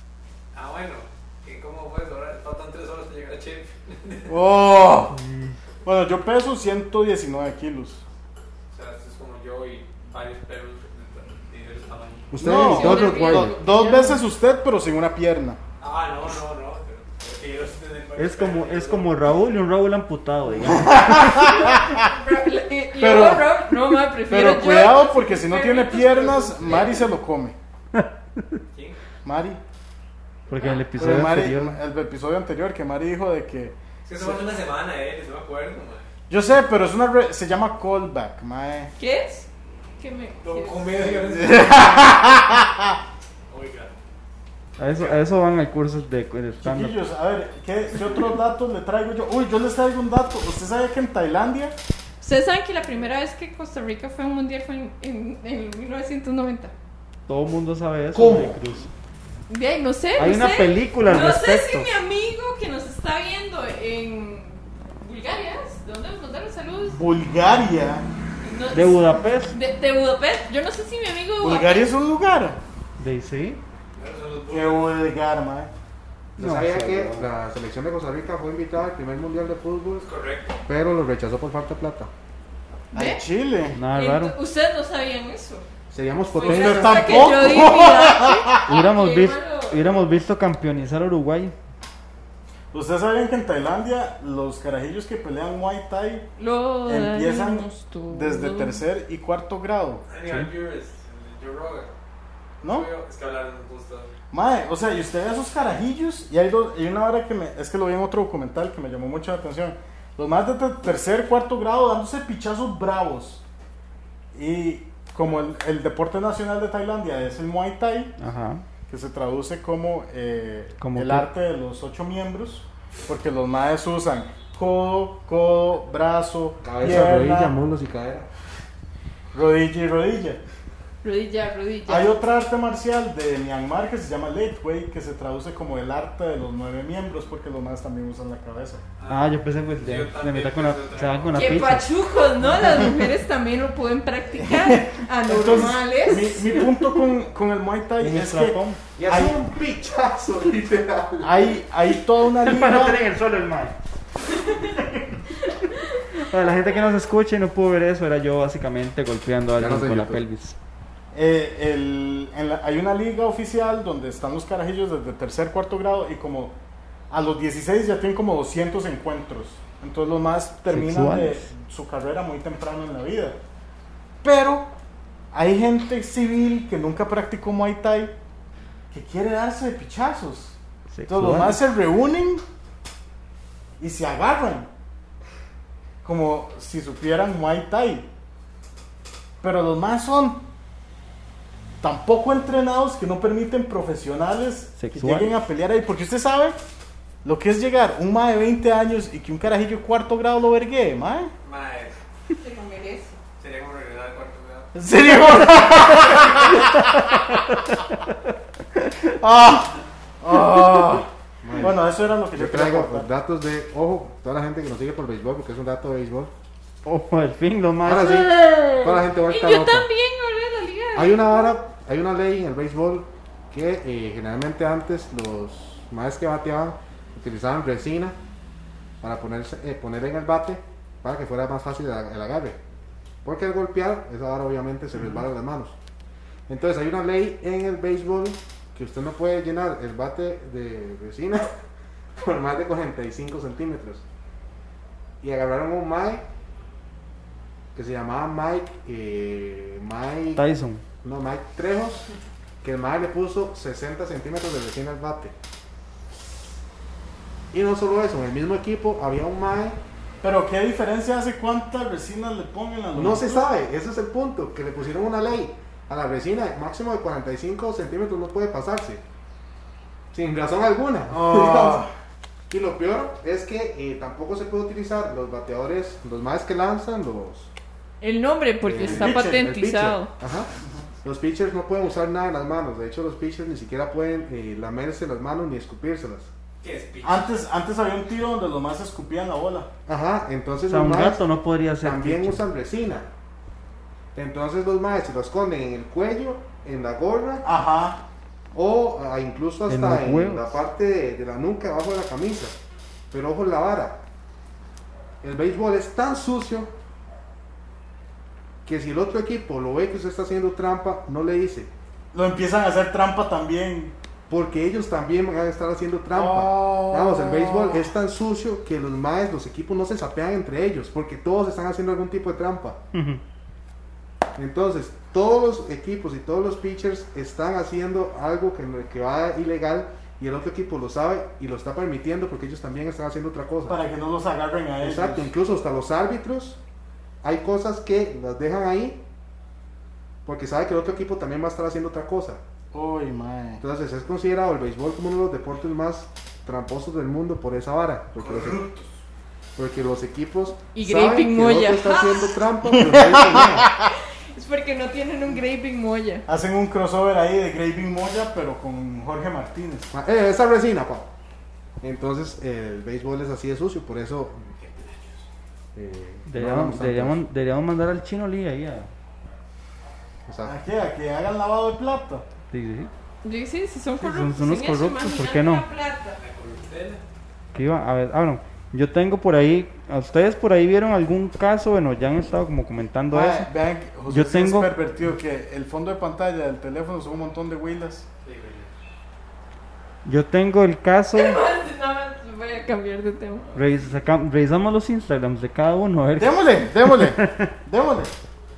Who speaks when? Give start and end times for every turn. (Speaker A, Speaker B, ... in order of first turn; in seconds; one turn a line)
Speaker A: 0.5-4.4
Speaker B: 4.3-5.2
Speaker C: 5.1-5.6
Speaker B: 5.8-8.0
Speaker A: 8.7-12.4
Speaker D: 12.3-13.6
Speaker B: 12.4-15.6
Speaker E: 12.4-14.2
Speaker A: 15.8-19.1
Speaker C: 18.2-21.7
Speaker B: 20.6-22.0
Speaker E: 21.6-27.1
Speaker B: 22.9-27.6
Speaker C: 27.9-28.6
Speaker B: 29.2-29.6
Speaker C: 30.5-31.8
Speaker A: 30.6-30.9
Speaker B: 30.9-34.5
Speaker A: 34.1-36.1
Speaker B: 36.3-38.9
Speaker E: 39.0-41.1
Speaker A: 40.4-42.3
Speaker B: 41.2-42.9
Speaker A: 43.5-43.9
Speaker C: 44.8-47.0
Speaker B: 46.6-51.8
Speaker E: 52.2-56.7
Speaker C: 57.3-58.9
Speaker D: 58.1-58.6
Speaker E: 59.5-67.0
Speaker C: 60.2-61.9
Speaker B: 66.9-68.1
Speaker E: 68.4-71.9
Speaker C: 68.7-69.5
Speaker B: 71.4-72.6
Speaker C: 73.0-73.6
Speaker A: 74.0-75.0
Speaker B: 74.5-75.7
Speaker D: 76.4-80.1
Speaker C: 76.4-77.3
Speaker A: 80.0-80.6
Speaker D: 80.7-82.1
Speaker E: 82.9-83.2
Speaker B: 82.9-83.8
Speaker C: 83.7-84.3
Speaker E: 83.9-85.7
Speaker D: 85.9-87.3
Speaker E: 86.4-90.2
Speaker B: 86.4-88.7
Speaker C: 88.6-91.5
Speaker B: 92.7-96.3
Speaker E: 96.4-98.8
Speaker B: 96.9-100.0
Speaker A: 100.1-101.9
Speaker C: 100.2-100.5
Speaker A: 102.6-104.1
Speaker B: 102.6-102.9
Speaker B: 104.3-113.4
Speaker B: 114.3-118.1
Speaker C: 118.2-118.6
Speaker B: 118.9-127.5
Speaker C: 120.8-121.3
Speaker D: 126.6-128.3
Speaker B: 129.3-130.4
Speaker E: 131.0-132.1
Speaker B: 131.9-138.8
Speaker A: 139.0-141.7
Speaker C: 139.1-141.9
Speaker E: 141.3-146.5
Speaker B: 144.4-149.4
Speaker C: 148.0-148.8
Speaker D: 149.0-151.5
Speaker B: 151.2-153.0
Speaker C: 152.3-153.8
Speaker E: 154.3-154.6
Speaker C: 154.6-155.0
Speaker C: 156.2-160.6
Speaker D: 159.6-160.2
Speaker B: 161.1-166.6
Speaker B: 167.1-173.4
Speaker C: 170.7-171.5
Speaker B: 174.2-174.7
Speaker B: 175.3-178.1
Speaker B: 178.9-180.6
Speaker C: 180.9-181.6
Speaker B: 181.1-182.4
Speaker B: 183.8-184.7
Speaker B: 186.0-188.1
Speaker B: 189.4-190.4
Speaker B: 191.8-196.6
Speaker C: 194.8-195.3
Speaker B: 197.2-201.3
Speaker A: 201.4-202.0
Speaker E: 202.4-203.2
Speaker A: 203.4-204.7
Speaker B: 204.8-206.9
Speaker C: 205.2-209.1
Speaker B: 209.2-213.1
Speaker D: 211.4-216.3
Speaker C: 216.8-218.3
Speaker D: 217.8-219.9
Speaker E: 218.2-221.6
Speaker D: 220.9-228.2
Speaker D: 229.0-232.6
Speaker D: 233.2-235.8
Speaker D: 236.5-241.5
Speaker D: 242.2-244.0
Speaker D: 245.2-246.2
Speaker D: 247.8-250.4
Speaker C: 250.4-250.8
Speaker D: 251.0-252.1
Speaker D: 252.6-255.3
Speaker D: 257.5-259.8
Speaker B: 260.2-263.4
Speaker D: 262.9-269.0
Speaker D: 270.1-271.9
Speaker B: 271.1-271.9
Speaker D: 272.5-277.5
Speaker E: 278.0-280.1
Speaker D: 278.6-280.5
Speaker B: 278.8-279.5
Speaker D: 281.0-286.3
Speaker A: 286.6-287.3
Speaker B: 287.0-289.7
Speaker D: 289.9-291.2
Speaker C: 290.7-292.4
Speaker D: 291.8-293.1
Speaker D: 294.1-297.5
Speaker B: 297.4-298.0
Speaker D: 298.5-302.6
Speaker C: 299.7-300.5
Speaker D: 303.1-304.0
Speaker D: 305.2-306.7
Speaker D: 308.7-311.7
Speaker B: 312.1-313.9
Speaker D: 314.3-322.8
Speaker B: 316.1-317.9
Speaker C: 322.9-323.2
Speaker D: 324.4-333.8
Speaker B: 333.7-335.3
Speaker D: 334.8-336.6
Speaker D: 337.2-339.0
Speaker D: 340.2-342.4
Speaker B: 342.7-343.6
Speaker D: 343.6-348.6
Speaker A: 348.2-348.9
Speaker D: 349.6-353.7
Speaker E: 350.8-352.4
Speaker B: 352.6-353.9
Speaker E: 354.3-356.2
Speaker B: 356.3-359.9
Speaker D: 359.9-361.1
Speaker D: 361.8-364.5
Speaker A: 364.6-365.2
Speaker D: 365.8-367.2
Speaker C: 366.3-368.9
Speaker D: 370.3-370.5
Speaker B: 370.4-372.2
Speaker C: 372.5-372.9
Speaker E: 373.2-376.2
Speaker C: 374.0-375.6
Speaker A: 376.2-377.0
Speaker C: 377.5-383.5
Speaker B: 383.1-388.1
Speaker C: 384.1-384.7
Speaker A: 388.2-388.7
Speaker C: 390.1-391.4
Speaker E: 391.1-393.7
Speaker C: 393.6-397.5
Speaker B: 396.2-398.1